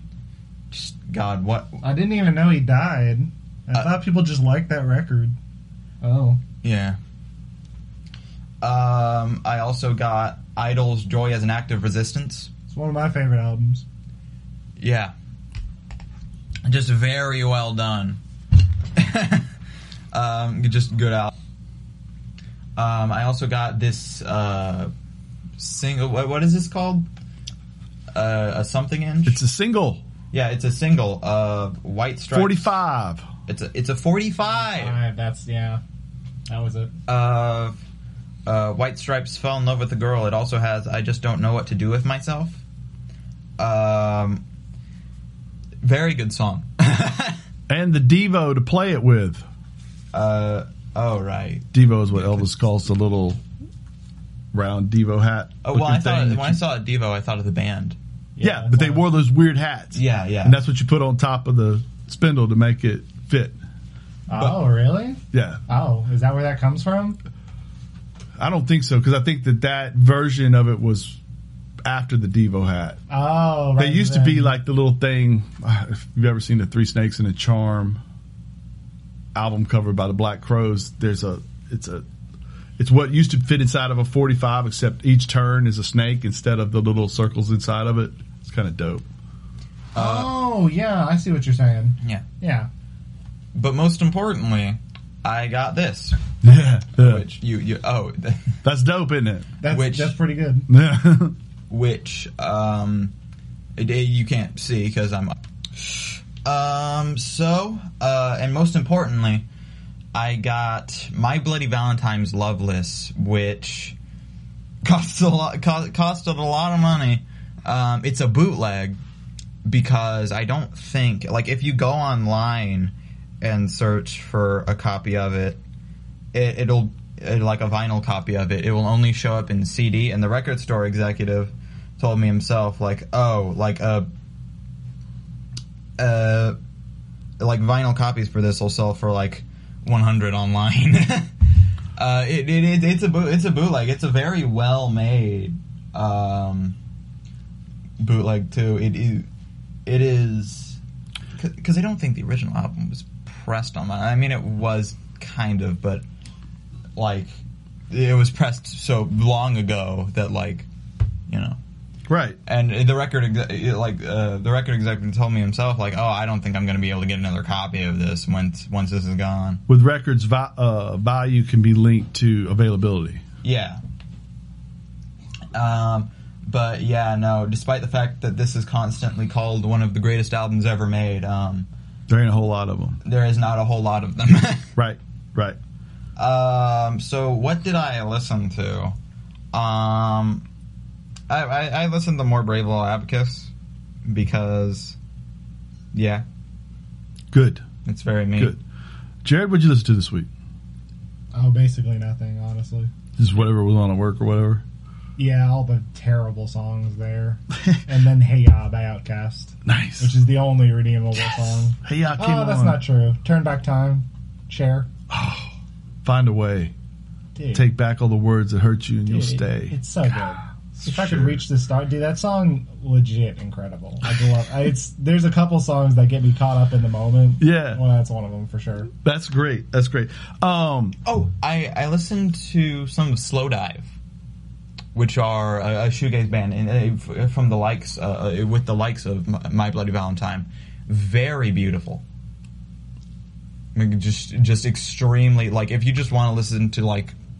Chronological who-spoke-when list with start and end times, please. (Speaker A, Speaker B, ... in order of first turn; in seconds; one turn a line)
Speaker A: 0.7-1.8
Speaker B: 1.8-5.3
Speaker B: 6.0-6.4
Speaker A: 6.6-7.0
Speaker A: 8.6-12.5
Speaker B: 12.7-13.8
Speaker A: 14.8-15.1
Speaker A: 16.6-18.2
Speaker A: 18.9-19.5
Speaker A: 20.1-21.3
Speaker A: 22.8-24.9
Speaker A: 25.6-27.1
Speaker A: 28.1-29.4
Speaker C: 29.2-30.0
Speaker A: 30.3-32.7
Speaker C: 32.3-33.2
Speaker A: 33.5-35.0
Speaker B: 34.5-35.8
Speaker B: 36.5-36.9
Speaker A: 37.1-37.8
Speaker A: 38.5-42.6
Speaker A: 43.6-44.4
Speaker A: 45.8-47.4
Speaker C: 47.7-49.4
Speaker A: 50.1-52.5
Speaker C: 51.7-53.4
Speaker C: 54.5-56.6
Speaker A: 55.6-58.0
Speaker B: 58.4-59.0
Speaker C: 58.4-63.6
Speaker A: 59.9-60.6
Speaker B: 64.3-67.2
Speaker A: 64.3-64.7
Speaker C: 65.3-65.6
Speaker C: 68.4-71.2
Speaker C: 71.8-73.0
Speaker B: 73.1-74.5
Speaker C: 73.8-78.0
Speaker C: 79.3-82.0
Speaker C: 82.8-89.0
Speaker A: 89.9-90.3
Speaker B: 90.0-92.7
Speaker A: 93.5-98.6
Speaker C: 96.4-97.2
Speaker C: 98.6-99.5
Speaker B: 99.6-100.7
Speaker A: 99.7-100.2
Speaker C: 100.7-101.3
Speaker A: 101.7-103.1
Speaker A: 103.8-109.4
Speaker A: 110.1-114.0
Speaker A: 114.8-119.0
Speaker A: 119.7-125.6
Speaker A: 126.3-134.1
Speaker A: 136.0-136.6
Speaker A: 137.4-146.8
Speaker A: 148.0-149.3
Speaker A: 149.8-150.8
Speaker A: 151.3-156.0
Speaker A: 156.9-157.3
Speaker A: 157.9-160.7
Speaker A: 161.3-161.6
Speaker C: 162.1-162.4
Speaker A: 162.4-169.6
Speaker C: 169.7-173.2
Speaker A: 173.4-173.8
Speaker A: 175.5-181.7
Speaker C: 182.1-183.0
Speaker A: 183.0-184.7
Speaker C: 184.8-185.6
Speaker A: 186.2-188.9
Speaker A: 189.5-190.4
Speaker A: 191.3-193.5
Speaker A: 194.0-195.0
Speaker A: 195.9-196.2
Speaker C: 197.3-197.6
Speaker A: 197.8-198.5
Speaker C: 199.2-200.3
Speaker B: 201.3-202.9
Speaker C: 203.2-204.6
Speaker B: 205.2-214.9
Speaker C: 209.6-210.1
Speaker C: 211.8-212.8
Speaker C: 215.1-215.5
Speaker C: 216.0-216.7
Speaker B: 217.3-217.6
Speaker C: 217.5-219.7
Speaker B: 219.1-228.9
Speaker C: 220.8-221.4
Speaker C: 227.4-227.8
Speaker C: 229.0-231.0
Speaker A: 231.0-233.9
Speaker A: 234.9-242.0
Speaker A: 243.7-247.1